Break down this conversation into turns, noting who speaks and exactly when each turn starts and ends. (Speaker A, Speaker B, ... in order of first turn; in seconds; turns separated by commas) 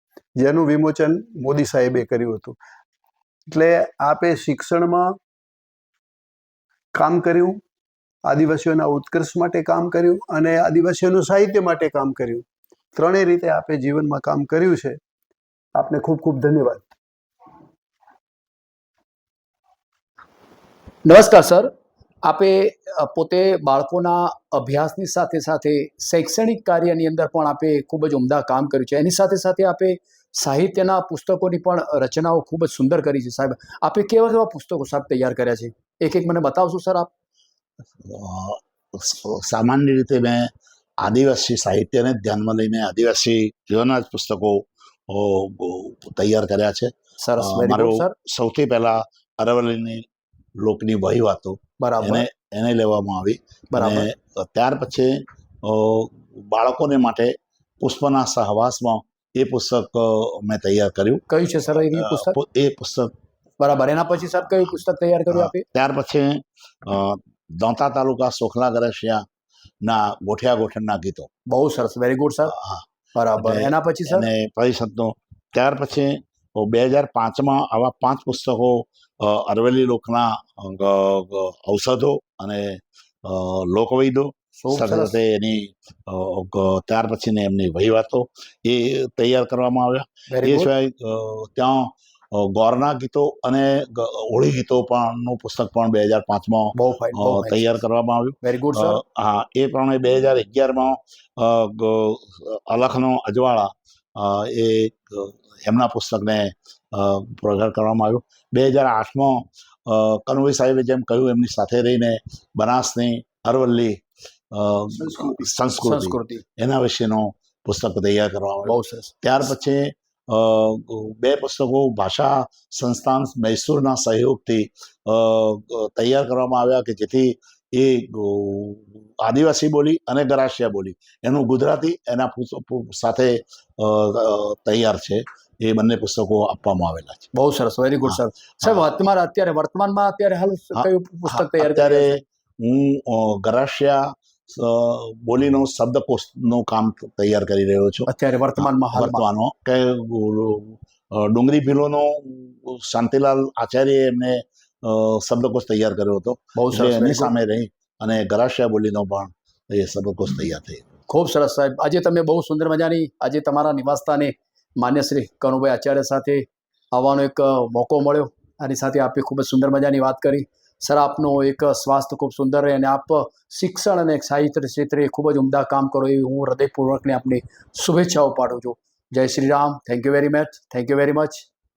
Speaker A: 0.4-2.6, Speaker A: 3.5-5.2, Speaker A: 7.0-7.6, Speaker A: 8.3-12.4, Speaker A: 13.0-15.0, Speaker A: 15.8-16.9, Speaker B: 21.1-21.7, Speaker B: 22.2-37.1, Speaker C: 38.0-50.1, Speaker B: 47.2-48.1, Speaker C: 50.6-63.1, Speaker B: 51.8-52.2, Speaker B: 53.7-54.1, Speaker B: 61.3-62.4, Speaker B: 63.6-65.7, Speaker C: 65.3-69.3, Speaker C: 69.8-71.3, Speaker B: 71.5-72.5, Speaker C: 72.5-72.8, Speaker B: 73.2-74.3, Speaker C: 73.4-137.3, Speaker B: 84.6-85.2, Speaker B: 90.3-90.7, Speaker B: 96.8-97.7, Speaker B: 98.4-99.0, Speaker B: 115.2-116.4, Speaker B: 118.7-119.2, Speaker B: 137.3-142.1, Speaker C: 138.1-139.1, Speaker C: 140.7-160.9, Speaker B: 148.1-149.2, Speaker B: 156.6-157.3, Speaker B: 161.1-181.5